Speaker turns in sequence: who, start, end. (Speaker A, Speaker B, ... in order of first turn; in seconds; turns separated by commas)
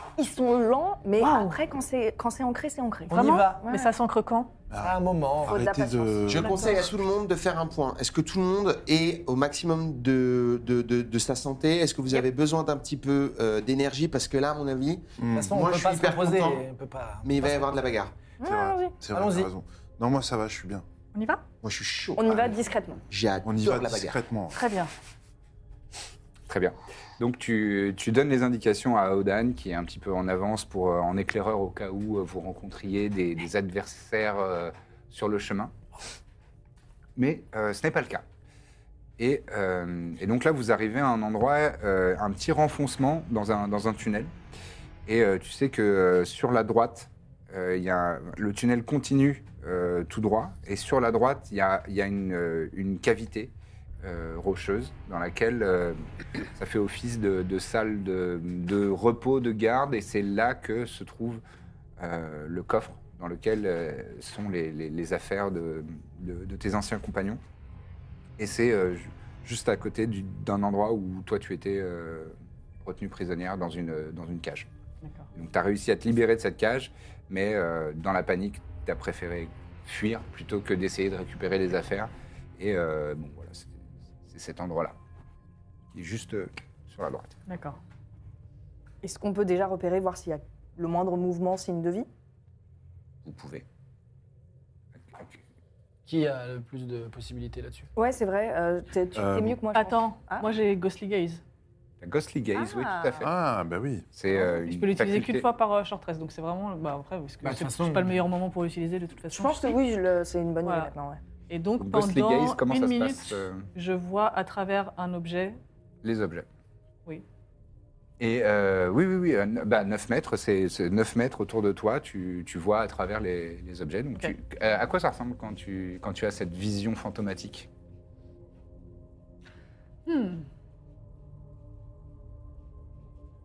Speaker A: 0.2-3.9, Speaker B: 1.2-1.6, Speaker B: 3.1-4.5, Speaker C: 3.1-3.6, Speaker D: 4.7-6.8, Speaker C: 4.8-5.6, Speaker A: 5.5-6.4, Speaker E: 6.3-16.6, Speaker B: 6.4-6.8, Speaker D: 15.2-15.6, Speaker C: 15.3-17.9, Speaker E: 17.2-18.1, Speaker A: 18.4-18.9, Speaker D: 18.4-20.9, Speaker C: 19.1-19.5, Speaker B: 21.1-21.4, Speaker E: 21.6-22.6, Speaker A: 22.2-23.0, Speaker E: 23.1-24.2, Speaker D: 23.4-24.6, Speaker B: 24.5-24.9, Speaker F: 26.5-35.7, Speaker F: 37.2-38.2, Speaker F: 39.2-44.3, Speaker F: 45.1-61.4, Speaker F: 62.0-67.4, Speaker F: 68.4-74.7, Speaker B: 75.0-75.3, Speaker F: 75.3-85.0, Speaker F: 85.9-87.3, Speaker B: 87.5-87.8, Speaker A: 89.0-92.1, Speaker F: 93.2-93.7, Speaker F: 95.0-95.4, Speaker C: 96.1-97.9, Speaker A: 98.0-100.5, Speaker D: 99.2-99.6, Speaker B: 99.7-101.4, Speaker F: 102.0-103.3, Speaker A: 102.5-103.3, Speaker D: 103.2-104.1, Speaker F: 104.1-105.5, Speaker B: 104.3-109.8, Speaker C: 107.4-108.2, Speaker A: 109.3-111.2, Speaker B: 110.6-110.9, Speaker B: 111.5-115.6, Speaker F: 111.8-113.7, Speaker F: 116.0-116.5, Speaker F: 118.2-127.7, Speaker B: 130.1-130.5